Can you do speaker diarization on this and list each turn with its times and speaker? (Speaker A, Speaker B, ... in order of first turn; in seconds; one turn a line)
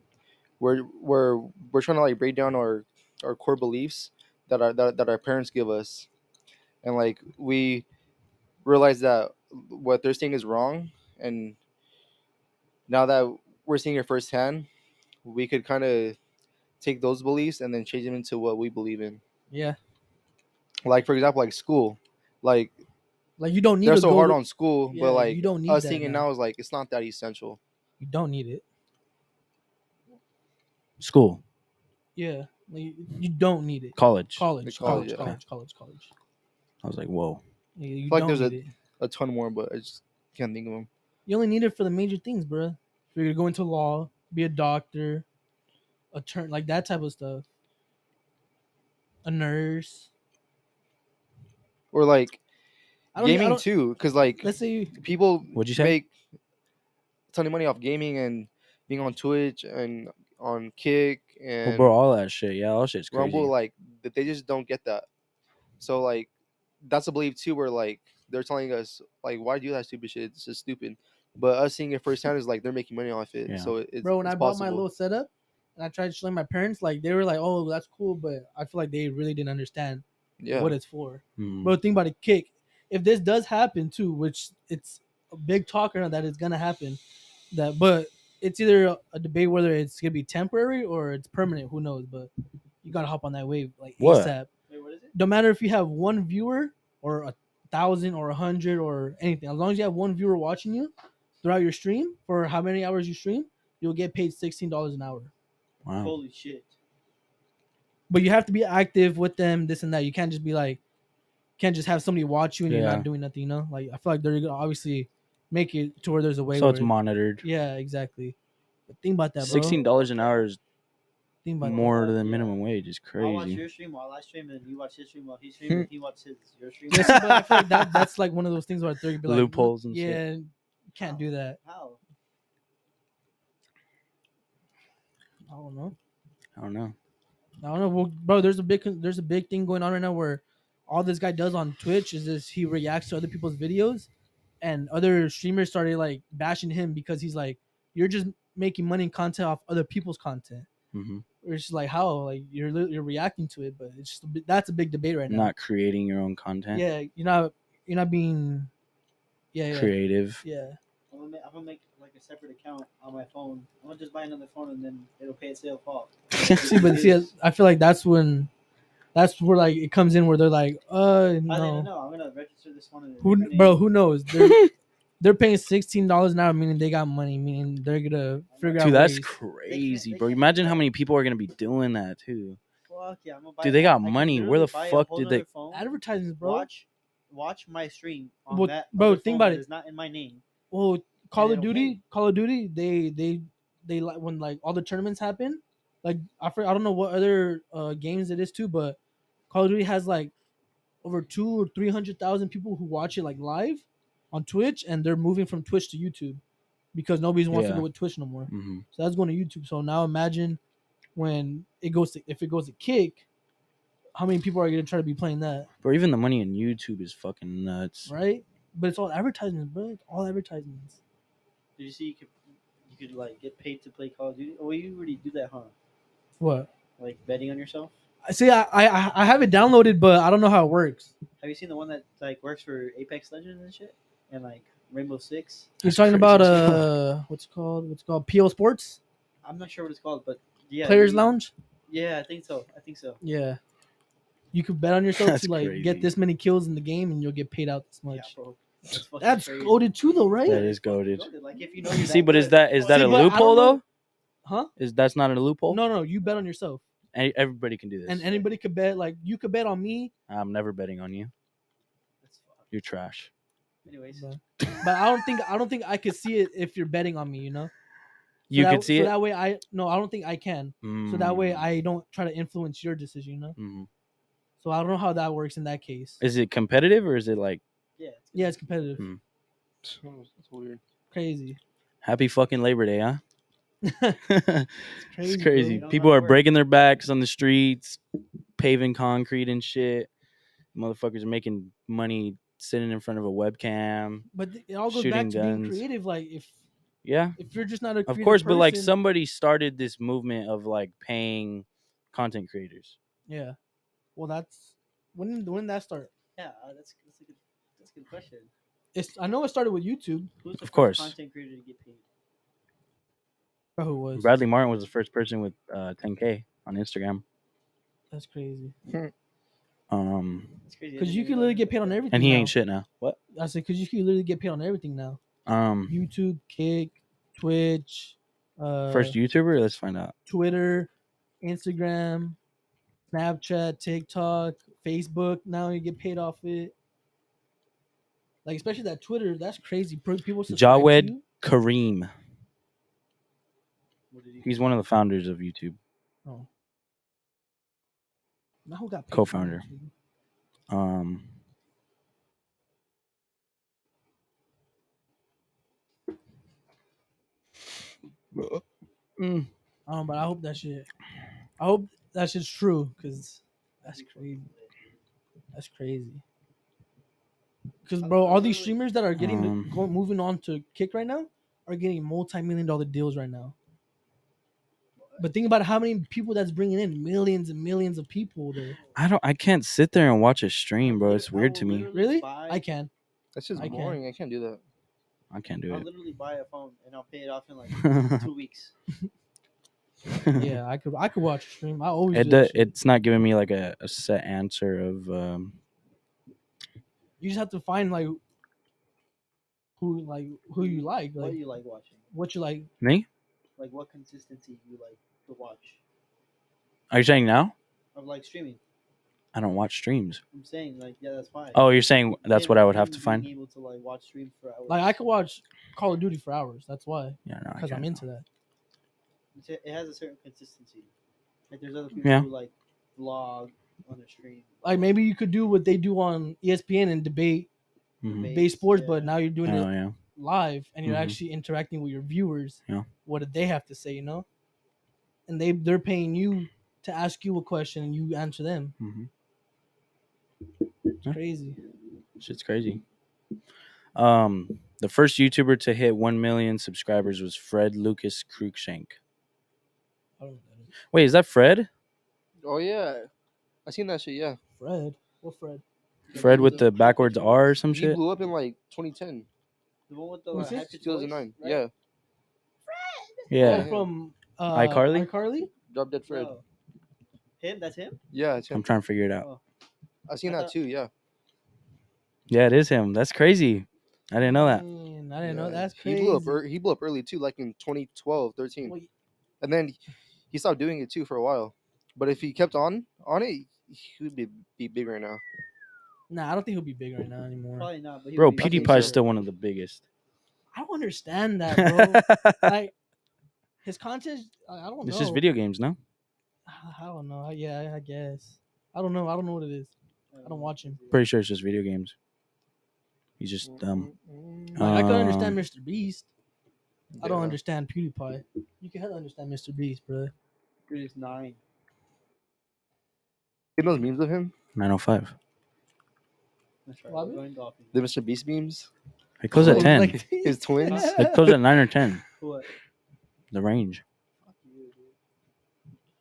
Speaker A: 0.6-6.1
Speaker A: 6.8-7.8
Speaker A: 8.6-11.6
Speaker A: 12.9-14.7
Speaker A: 15.2-16.2
Speaker A: 16.8-19.2
Speaker B: 19.5-19.8
Speaker A: 20.8-22.7
Speaker B: 23.4-26.3
Speaker A: 23.8-27.6
Speaker B: 28.0-28.6
Speaker C: 31.0-31.4
Speaker B: 32.1-36.1
Speaker C: 34.0-35.4
Speaker A: 34.6-35.3
Speaker C: 36.8-37.4
Speaker B: 37.8-38.7
Speaker A: 38.1-40.9
Speaker B: 41.2-45.2
Speaker B: 46.1-47.4
Speaker B: 49.2-50.1
Speaker A: 51.9-52.4
Speaker B: 53.1-53.6
Speaker A: 53.1-56.1
Speaker B: 54.4-54.9
Speaker C: 55.5-56.0
Speaker A: 57.3-61.9
Speaker C: 61.6-63.5
Speaker A: 63.1-65.0
Speaker A: 65.8-66.3
Speaker A: 66.8-74.8
Speaker B: 74.0-92.3
Speaker A: 80.4-80.8
Speaker C: 81.4-81.8
Speaker B: 92.8-94.5
Speaker C: 94.0-94.3
Speaker D: 94.7-95.1
Speaker B: 95.1-105.3
Speaker C: 105.8-106.1
Speaker D: 106.0-106.7
Speaker B: 108.1-110.8
Speaker B: 111.6-116.9
Speaker C: 112.7-113.1
Speaker C: 116.5-117.4
Speaker B: 117.4-118.3
Speaker B: 118.9-119.8
Speaker C: 119.4-120.6
Speaker D: 119.5-120.4
Speaker B: 121.4-122.1
Speaker D: 121.6-122.6
Speaker C: 121.6-123.6
Speaker D: 123.2-127.3
Speaker B: 126.9-131.6
Speaker C: 126.9-128.1
Speaker C: 129.2-130.2
Speaker D: 131.0-132.0
Speaker B: 135.5-135.9
Speaker C: 136.6-136.9
Speaker B: 137.6-144.1
Speaker B: 144.6-150.7
Speaker C: 150.9-151.2
Speaker B: 151.4-155.5
Speaker C: 155.3-156.8
Speaker B: 156.7-158.7
Speaker B: 159.5-160.8
Speaker C: 159.7-160.4
Speaker D: 161.1-167.3
Speaker C: 166.3-166.9
Speaker B: 166.6-168.5
Speaker B: 169.1-171.9
Speaker D: 171.5-173.8
Speaker B: 173.2-174.7
Speaker C: 174.3-174.7
Speaker B: 175.2-179.3
Speaker D: 178.5-179.0
Speaker C: 178.8-182.6
Speaker D: 179.7-180.8
Speaker D: 182.9-185.9
Speaker C: 183.6-185.4
Speaker B: 185.7-186.7
Speaker D: 186.4-190.4
Speaker B: 188.5-189.6
Speaker B: 190.7-199.0
Speaker D: 191.3-192.0
Speaker B: 199.5-200.3
Speaker B: 201.0-206.4
Speaker B: 206.9-210.6
Speaker C: 207.5-207.9
Speaker C: 208.5-208.8
Speaker B: 211.1-213.2
Speaker B: 214.1-215.7
Speaker C: 215.8-218.1
Speaker B: 218.1-221.0
Speaker D: 221.8-222.3
Speaker D: 222.8-225.7
Speaker B: 226.4-226.7
Speaker D: 227.0-227.9
Speaker B: 228.2-231.1
Speaker D: 231.4-235.7
Speaker C: 235.8-236.9
Speaker B: 235.8-239.0
Speaker D: 239.4-241.3
Speaker B: 240.8-241.5
Speaker D: 241.9-243.2
Speaker B: 243.2-243.6
Speaker B: 244.5-248.3
Speaker C: 245.1-246.1
Speaker D: 248.1-253.4
Speaker B: 249.2-250.6
Speaker C: 250.4-251.3
Speaker C: 251.8-253.8
Speaker B: 252.9-253.8
Speaker B: 254.4-254.7
Speaker C: 254.8-255.8
Speaker B: 255.7-256.8
Speaker C: 257.1-258.3
Speaker B: 258.1-260.1
Speaker C: 260.3-261.3
Speaker D: 262.2-262.8
Speaker C: 262.7-263.3
Speaker D: 263.8-264.2
Speaker B: 264.1-267.7
Speaker C: 264.6-265.2
Speaker C: 268.5-269.1
Speaker B: 268.5-273.6
Speaker C: 270.8-271.7
Speaker C: 273.6-273.9
Speaker B: 274.6-276.2
Speaker C: 276.2-277.6
Speaker D: 278.0-279.0
Speaker B: 278.3-279.0
Speaker A: 279.8-280.8
Speaker B: 281.1-281.6
Speaker C: 282.0-283.2
Speaker B: 283.8-284.2
Speaker C: 284.3-288.0
Speaker B: 285.0-285.8
Speaker D: 285.8-286.5
Speaker C: 288.6-290.1
Speaker C: 290.7-294.3
Speaker B: 294.3-296.6
Speaker C: 294.9-295.8
Speaker C: 297.0-297.4
Speaker B: 297.4-298.9
Speaker C: 298.1-302.9
Speaker B: 303.3-303.6
Speaker B: 304.1-306.1
Speaker D: 306.4-308.5
Speaker B: 308.9-310.3
Speaker D: 310.4-312.0
Speaker C: 310.6-311.1
Speaker B: 313.8-314.3
Speaker C: 314.1-317.2
Speaker B: 318.1-318.7
Speaker A: 318.9-319.1
Speaker C: 319.9-320.6
Speaker D: 320.6-322.1
Speaker B: 321.0-322.5
Speaker C: 322.1-323.2
Speaker B: 323.3-325.2
Speaker C: 325.4-326.0
Speaker B: 325.9-329.2
Speaker C: 328.9-330.1
Speaker B: 330.2-330.9
Speaker B: 331.4-332.4
Speaker B: 333.1-336.7
Speaker B: 338.4-341.2
Speaker C: 340.5-342.1
Speaker D: 344.1-344.6
Speaker C: 344.4-345.8
Speaker B: 348.6-349.9
Speaker C: 349.1-349.6
Speaker C: 350.7-351.3
Speaker C: 358.3-358.6
Speaker C: 359.2-359.5
Speaker B: 359.9-360.9
Speaker B: 361.6-364.5
Speaker D: 363.8-364.7
Speaker B: 365.5-366.2
Speaker B: 367.8-373.5
Speaker D: 368.0-368.8
Speaker C: 369.1-369.8
Speaker D: 375.0-375.2
Speaker B: 375.2-378.8
Speaker C: 378.9-381.9
Speaker D: 380.8-382.6
Speaker B: 381.9-382.9
Speaker A: 383.3-384.6
Speaker C: 383.5-383.8
Speaker B: 383.6-384.0
Speaker C: 385.3-385.9
Speaker D: 385.7-388.7
Speaker C: 387.7-388.2
Speaker C: 390.1-390.6
Speaker B: 390.4-392.7
Speaker C: 392.1-395.6
Speaker B: 397.2-398.2
Speaker B: 399.8-401.4
Speaker D: 400.6-402.0
Speaker B: 402.1-402.7
Speaker C: 402.8-403.1
Speaker D: 403.6-405.8
Speaker C: 406.9-407.5
Speaker D: 407.9-408.6
Speaker C: 409.3-410.2
Speaker D: 410.3-411.6
Speaker C: 411.5-413.3
Speaker D: 412.2-415.0
Speaker B: 414.7-418.2
Speaker C: 417.3-418.0
Speaker D: 419.3-420.9
Speaker D: 421.5-424.8
Speaker B: 424.6-427.5
Speaker C: 428.0-428.3
Speaker D: 428.0-429.1
Speaker B: 428.3-434.2
Speaker C: 429.4-429.9
Speaker C: 430.8-431.2
Speaker B: 435.3-438.7
Speaker C: 438.8-439.1
Speaker B: 441.1-441.6
Speaker C: 442.2-442.8
Speaker C: 443.9-449.0
Speaker B: 450.2-450.7
Speaker C: 450.9-451.7
Speaker A: 452.4-453.1
Speaker A: 453.6-454.4
Speaker B: 454.6-455.6
Speaker D: 456.1-457.6
Speaker A: 456.1-456.7
Speaker C: 456.1-458.0
Speaker A: 457.7-459.3
Speaker D: 459.9-461.6
Speaker B: 460.3-460.7
Speaker A: 460.7-461.7
Speaker D: 462.7-463.3
Speaker C: 463.3-463.7
Speaker A: 463.4-463.9
Speaker B: 463.4-465.5
Speaker C: 464.5-465.1
Speaker A: 465.7-466.3
Speaker D: 466.1-466.4
Speaker D: 467.4-468.0
Speaker A: 468.1-468.6
Speaker C: 468.5-469.3
Speaker A: 470.1-470.9
Speaker D: 470.2-470.5
Speaker C: 472.3-474.6
Speaker B: 474.2-476.4
Speaker A: 475.2-478.7
Speaker B: 478.6-478.9
Speaker A: 479.4-479.8
Speaker A: 480.3-485.2
Speaker B: 486.1-487.7
Speaker D: 487.6-489.1
Speaker C: 488.2-489.8
Speaker A: 488.4-488.9
Speaker B: 490.5-492.7
Speaker C: 491.5-492.5
Speaker B: 493.6-495.2
Speaker C: 494.8-495.8
Speaker B: 496.4-499.7
Speaker D: 500.1-501.0
Speaker B: 500.2-500.8
Speaker C: 500.9-501.9
Speaker C: 503.2-503.9
Speaker A: 503.4-504.8
Speaker C: 504.5-505.4
Speaker B: 504.6-506.1
Speaker A: 506.9-507.4
Speaker B: 507.0-510.1
Speaker D: 510.7-511.4
Speaker A: 513.6-514.3
Speaker C: 514.5-515.1
Speaker D: 516.6-517.9
Speaker B: 516.9-517.2
Speaker A: 517.7-518.7
Speaker C: 519.2-520.0
Speaker A: 519.3-520.9
Speaker B: 519.4-521.4
Speaker D: 520.6-520.9
Speaker C: 520.9-522.0
Speaker D: 522.2-522.5
Speaker C: 523.3-523.8
Speaker D: 524.2-524.9